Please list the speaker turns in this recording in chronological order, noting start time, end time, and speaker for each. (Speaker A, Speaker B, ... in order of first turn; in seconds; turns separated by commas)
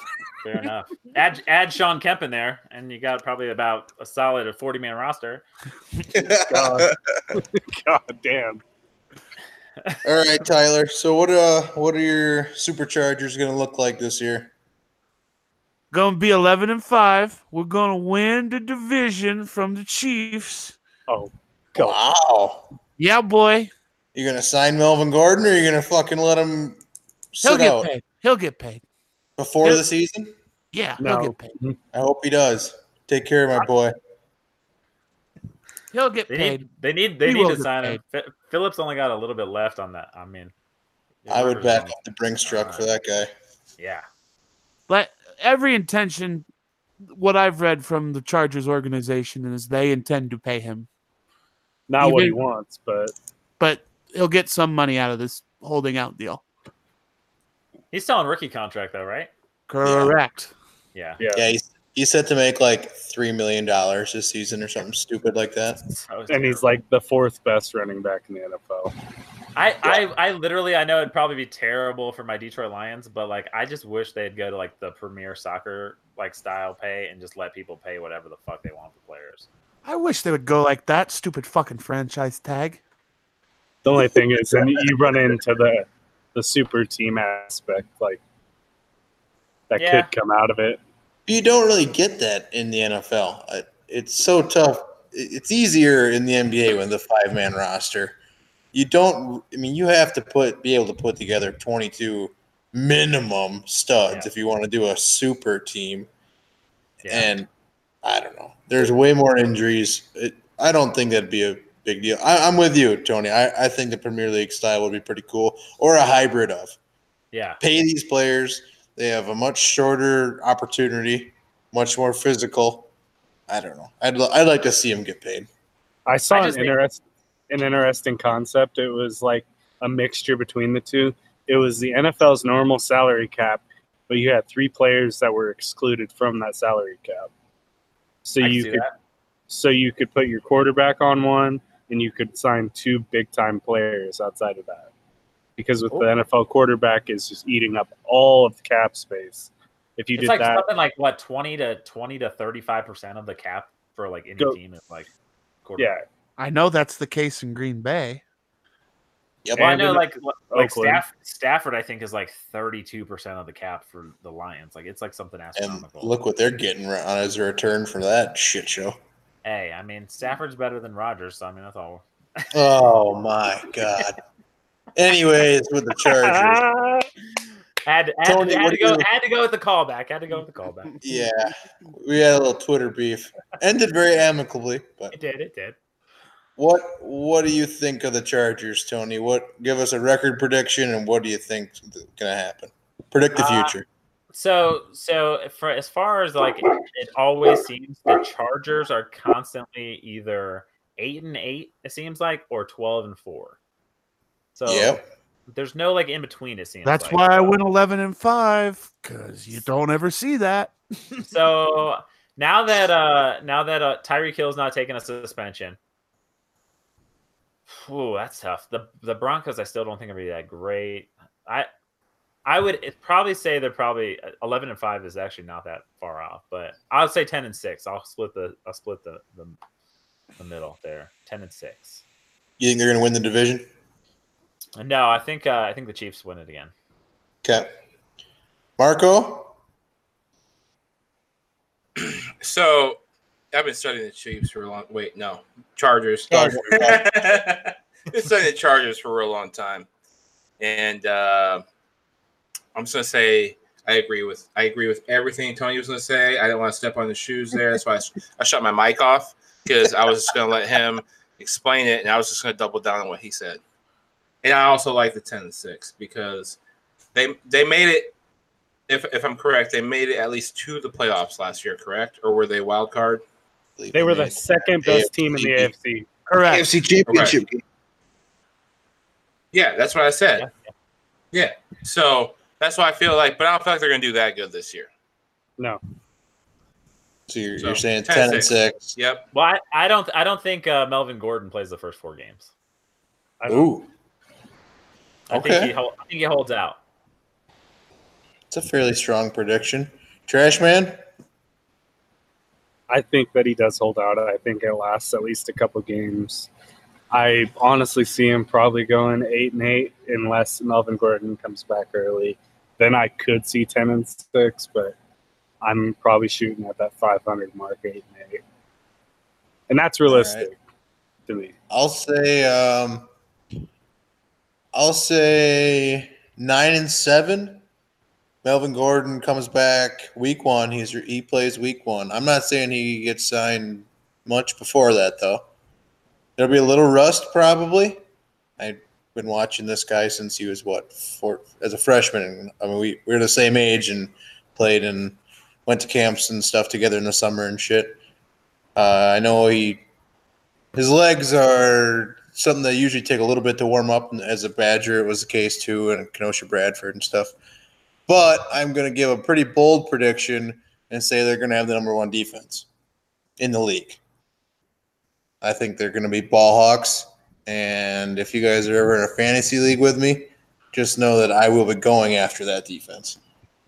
Speaker A: 0.4-5.4, Speaker B: 6.1-7.4, Speaker C: 6.5-8.6, Speaker B: 10.0-14.5, Speaker D: 15.9-20.8, Speaker C: 21.1-22.0, Speaker B: 21.8-22.6, Speaker D: 23.0-23.7, Speaker B: 24.1-26.8, Speaker B: 27.3-27.9, Speaker D: 27.4-28.8, Speaker B: 29.4-30.3, Speaker D: 30.7-31.5, Speaker C: 31.0-31.8, Speaker B: 31.9-33.9, Speaker D: 35.9-36.7, Speaker A: 36.3-40.5, Speaker D: 37.2-38.0, Speaker A: 41.2-42.9, Speaker B: 41.3-43.3, Speaker A: 43.8-44.0, Speaker D: 44.9-46.5, Speaker D: 47.1-50.9, Speaker C: 51.9-53.1, Speaker D: 52.0-52.4, Speaker D: 53.6-56.4, Speaker A: 57.9-59.3, Speaker D: 59.7-60.5, Speaker B: 59.8-60.1, Speaker A: 60.9-61.2, Speaker C: 61.2-61.4, Speaker B: 61.3-65.8, Speaker A: 65.9-66.7, Speaker C: 66.3-68.9, Speaker A: 69.5-79.5, Speaker D: 79.8-82.8, Speaker C: 83.8-88.2, Speaker C: 89.7-90.8, Speaker A: 89.8-90.1, Speaker B: 91.3-98.2, Speaker B: 98.7-106.1, Speaker A: 107.0-107.3, Speaker B: 107.1-107.5, Speaker B: 108.0-116.8, Speaker A: 117.3-117.6, Speaker B: 117.6-122.9, Speaker B: 123.5-125.5, Speaker C: 126.1-137.3, Speaker A: 126.3-126.7, Speaker C: 138.2-138.8, Speaker A: 138.4-138.9, Speaker C: 139.5-144.9, Speaker C: 145.6-150.6, Speaker A: 150.1-155.1, Speaker A: 155.6-155.9, Speaker C: 155.8-156.0, Speaker D: 156.4-158.2, Speaker B: 159.4-159.8, Speaker A: 159.6-166.2, Speaker C: 159.6-161.0, Speaker B: 165.5-168.9, Speaker A: 169.4-172.5, Speaker B: 172.5-174.2, Speaker B: 174.9-176.6, Speaker C: 176.1-177.1, Speaker A: 177.8-180.9, Speaker B: 178.2-179.1, Speaker B: 181.0-185.1, Speaker A: 185.1-185.8, Speaker B: 186.6-193.8, Speaker A: 193.3-193.7, Speaker A: 194.3-203.6, Speaker A: 204.5-207.5, Speaker B: 204.7-205.0, Speaker D: 206.8-210.7, Speaker A: 211.2-215.8, Speaker A: 217.7-221.7, Speaker A: 222.4-229.6, Speaker A: 230.4-232.0, Speaker B: 232.6-233.7, Speaker A: 234.8-236.7, Speaker B: 237.4-237.7, Speaker B: 238.8-239.5, Speaker E: 241.9-243.0, Speaker E: 243.5-249.8, Speaker B: 246.3-247.3, Speaker E: 250.6-251.6, Speaker E: 252.7-263.6, Speaker E: 264.4-266.6, Speaker E: 267.1-268.1, Speaker E: 268.9-273.2, Speaker B: 273.8-275.7, Speaker C: 273.9-276.1, Speaker D: 276.3-276.7, Speaker B: 276.4-277.6, Speaker E: 277.1-277.4, Speaker E: 279.5-280.4, Speaker A: 280.4-280.7, Speaker E: 281.3-284.9, Speaker B: 287.3-288.9, Speaker E: 287.6-289.2, Speaker A: 289.3-292.5, Speaker C: 293.4-293.7, Speaker B: 293.5-293.9, Speaker A: 295.3-296.8, Speaker B: 295.3-295.7, Speaker B: 298.5-301.0, Speaker C: 302.9-306.5, Speaker C: 307.1-314.9, Speaker C: 315.6-318.4, Speaker C: 319.7-320.6, Speaker B: 320.1-320.5, Speaker C: 321.3-321.5, Speaker B: 321.7-323.1, Speaker B: 324.7-327.6, Speaker B: 328.4-335.5, Speaker B: 336.4-338.0, Speaker B: 338.6-348.0, Speaker B: 348.8-349.8, Speaker B: 350.7-357.3, Speaker B: 358.1-362.7, Speaker B: 363.4-364.0, Speaker B: 365.4-373.2